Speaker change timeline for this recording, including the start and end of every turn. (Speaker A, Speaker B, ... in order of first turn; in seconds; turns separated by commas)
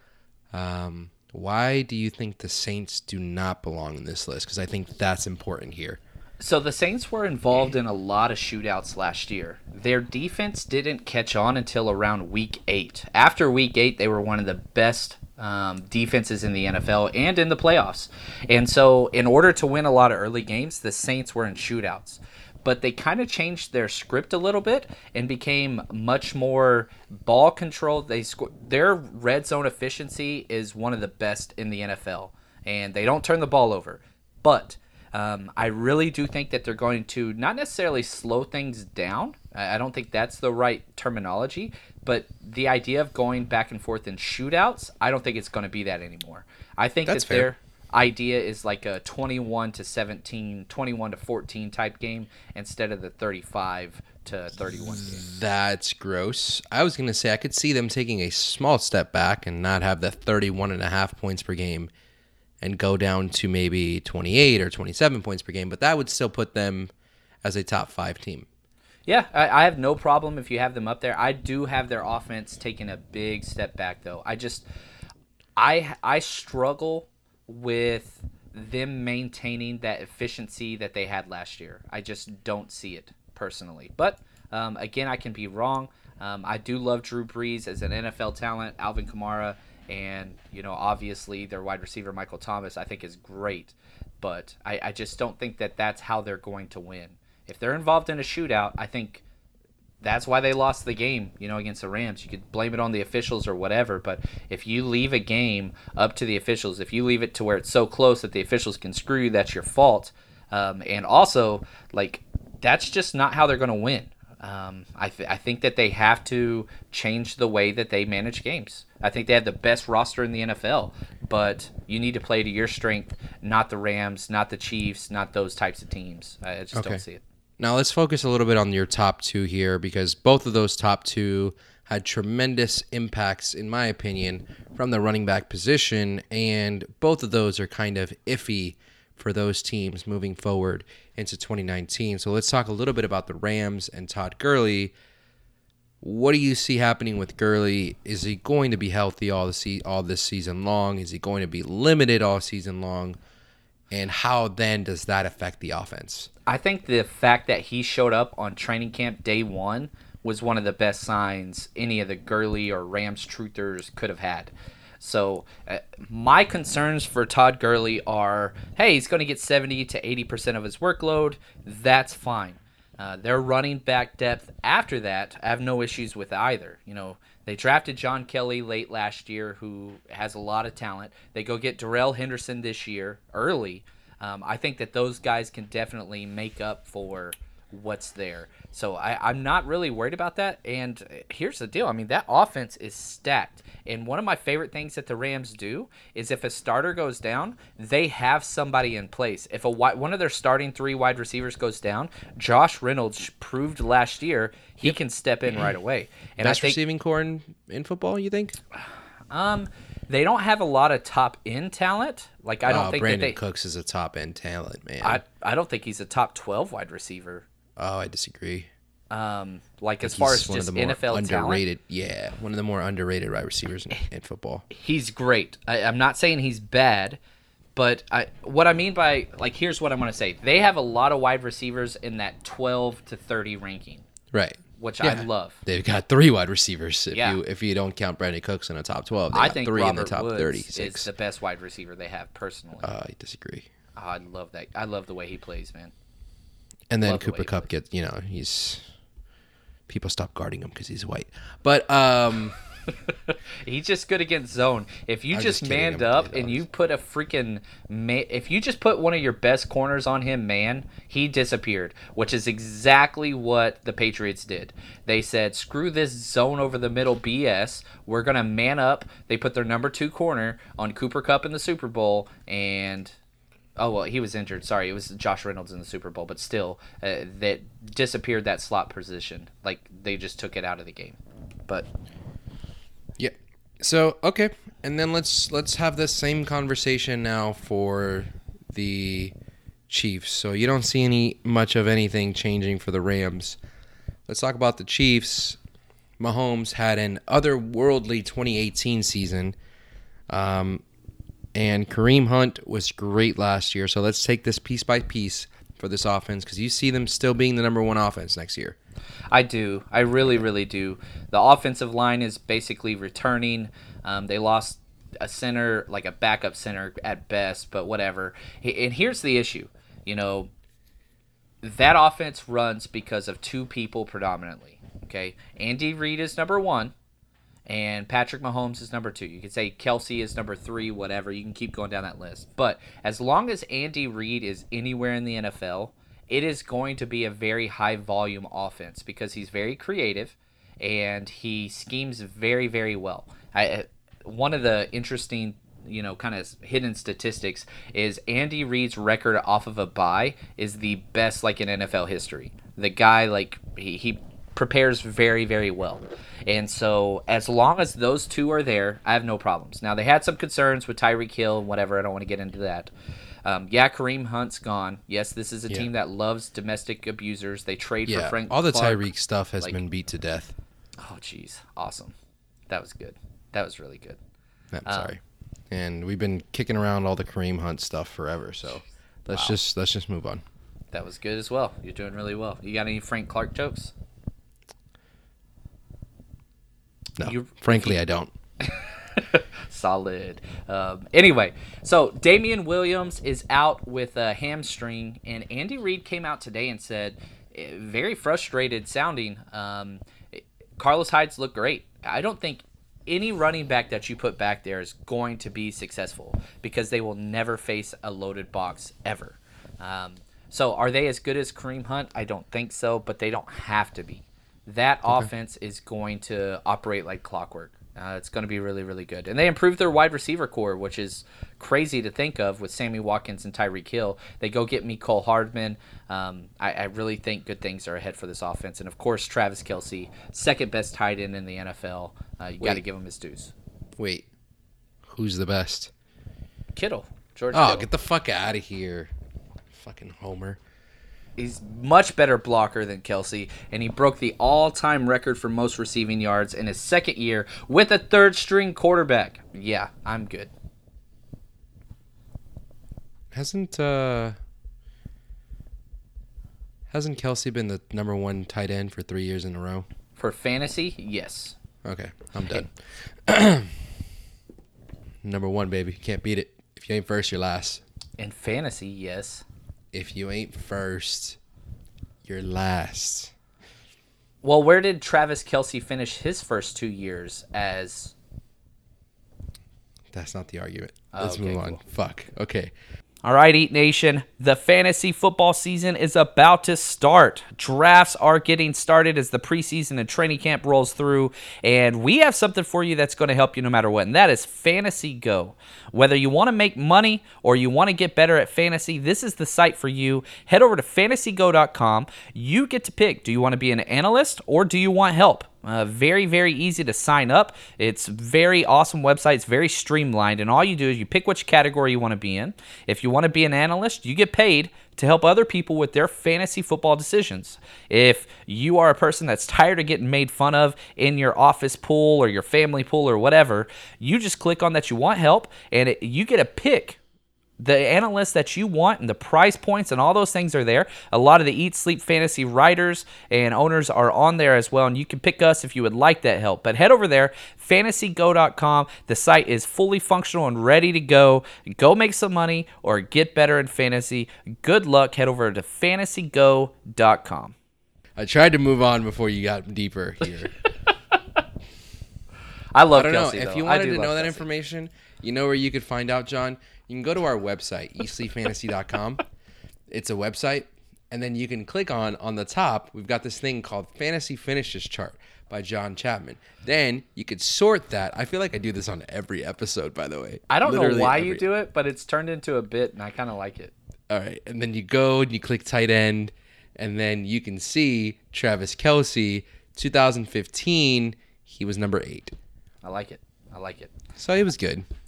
Speaker A: 0.5-6.0, Speaker B: 6.4-55.2, Speaker A: 47.1-47.5, Speaker A: 54.7-61.9, Speaker A: 62.6-66.9, Speaker A: 67.4-68.5, Speaker B: 69.1-74.7, Speaker B: 75.6-99.2, Speaker B: 100.0-127.2, Speaker A: 126.7-127.0, Speaker A: 127.6-144.9, Speaker A: 146.0-153.2, Speaker A: 153.9-156.3, Speaker B: 156.5-206.8, Speaker A: 206.4-208.6, Speaker B: 209.3-213.4, Speaker A: 212.7-215.2, Speaker B: 215.0-217.5, Speaker A: 217.8-218.7, Speaker B: 219.1-221.6, Speaker A: 220.0-224.7, Speaker B: 224.7-227.2, Speaker B: 227.8-234.1, Speaker A: 234.3-241.1, Speaker B: 234.8-235.6, Speaker B: 237.1-237.4, Speaker B: 239.3-242.9, Speaker A: 242.8-243.7, Speaker B: 244.0-245.9, Speaker A: 246.9-248.8, Speaker B: 247.0-247.7, Speaker A: 249.9-252.6, Speaker B: 253.3-273.1, Speaker A: 255.3-256.6, Speaker B: 273.8-281.9, Speaker A: 283.2-289.3, Speaker A: 289.9-293.6, Speaker A: 294.3-295.6, Speaker A: 296.2-299.6, Speaker A: 300.3-300.8, Speaker A: 301.6-308.8, Speaker B: 309.3-320.5, Speaker B: 321.6-326.9, Speaker B: 327.7-362.9, Speaker B: 363.4-369.1, Speaker A: 368.1-370.6, Speaker B: 371.0-372.1, Speaker B: 372.7-374.2, Speaker A: 374.7-375.2, Speaker B: 374.9-375.1, Speaker A: 375.7-380.4, Speaker B: 380.9-383.9, Speaker A: 387.2-388.3, Speaker B: 387.2-388.0, Speaker B: 388.6-433.5, Speaker A: 434.0-434.3, Speaker A: 435.0-435.9, Speaker B: 436.7-437.9, Speaker A: 437.5-439.1, Speaker A: 439.7-440.6, Speaker B: 441.4-450.5, Speaker A: 453.3-454.4, Speaker A: 456.9-459.9, Speaker B: 460.2-461.6, Speaker A: 461.8-463.9, Speaker A: 465.2-467.8, Speaker B: 468.2-469.4, Speaker A: 469.9-471.4, Speaker A: 472.2-473.3, Speaker B: 474.4-478.1, Speaker A: 480.1-482.7, Speaker B: 481.1-481.8, Speaker B: 483.2-527.0, Speaker B: 527.6-547.5, Speaker A: 548.2-550.5, Speaker B: 552.7-554.5, Speaker A: 552.9-559.2, Speaker A: 559.9-571.5, Speaker B: 570.5-573.7, Speaker A: 574.1-582.3, Speaker B: 582.8-583.9, Speaker A: 584.2-584.9